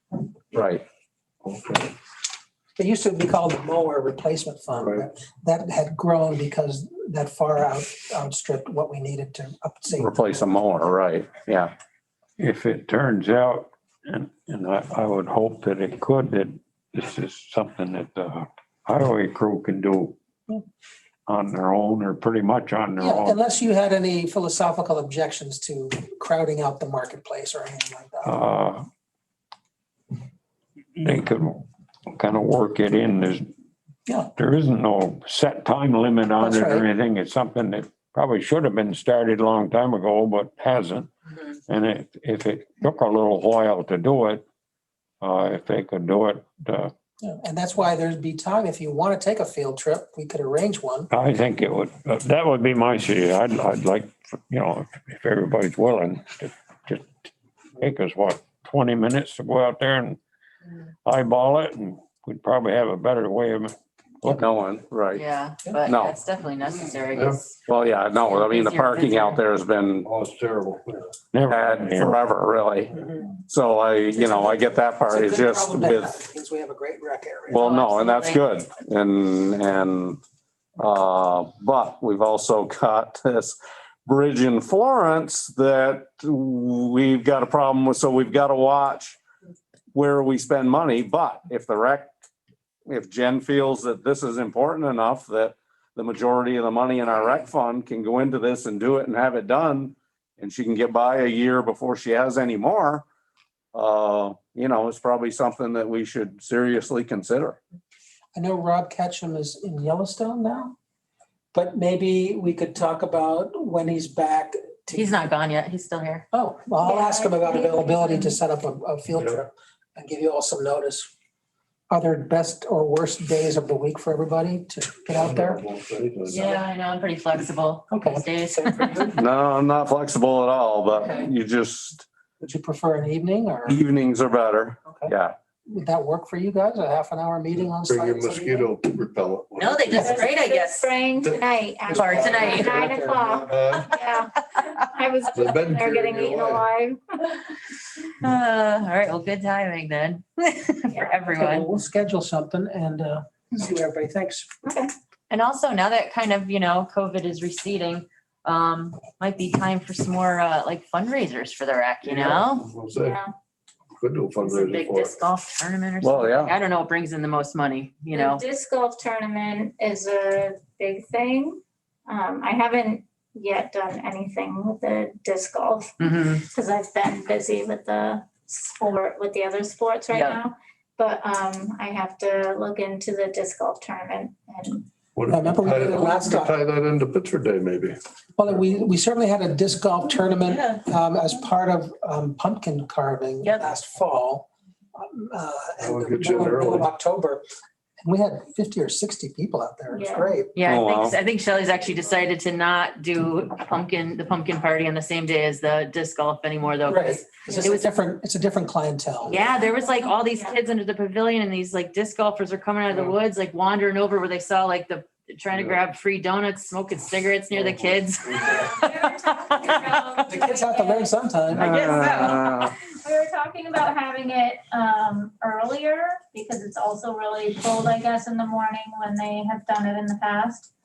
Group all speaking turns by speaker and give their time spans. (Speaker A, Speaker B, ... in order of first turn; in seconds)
Speaker A: 0.5-0.8, 10.0-11.7, 64.3-65.2, 65.8-66.2, 67.6-70.1, 71.5-72.9, 73.5-76.1, 77.5-80.2, 80.8-89.2, 89.9-92.1, 92.9-103.0, 103.7-107.6, 129.2-132.1, 133.7-135.3, 166.0-166.5, 200.6-201.2, 221.7-222.7
Speaker B: 1.4-1.9, 4.7-5.0, 67.1-67.5, 70.0-71.1, 125.1-126.6, 137.8-140.2, 141.2-142.8, 143.4-144.0, 145.3-146.7, 162.0-163.2, 164.0-165.2, 185.2-188.0, 195.8-196.9, 217.6-217.9
Speaker C: 2.8-10.4, 23.0-28.4, 36.4-36.9, 47.2-51.1, 74.1-77.7, 108.3-110.8, 111.5-115.3, 116.3-121.1, 121.9-125.6, 127.9-129.2, 132.4-133.8, 134.9-135.1, 135.7-138.7, 142.2-143.5, 151.3-154.5, 185.3-186.5, 188.4-197.4, 198.0-200.5, 206.9-209.4, 220.3-221.8
Speaker D: 12.4-20.2, 21.3-23.4, 28.2-28.9, 31.0-33.5, 34.3-41.1, 41.7-44.4, 45.2-46.9, 51.1-60.2, 61.0-64.5, 71.3-72.2
Speaker E: 65.1-67.6, 68.2-69.4, 77.5-78.4, 114.9-116.2, 126.3-129.1, 139.6-140.9, 141.9-142.8, 148.2-151.7, 155.3-162.7, 164.4-168.4, 176.0-176.4, 180.1-180.4, 190.5-190.8, 200.6-207.9, 209.3-220.4, 221.6-222.5
Speaker F: 116.8-118.4, 140.0-147.3, 154.6-154.9, 162.9-163.3, 168.1-184.9, 199.9-200.3, 209.5-210.6, 218.4-219.2, 219.7-220.2, 222.8-230.7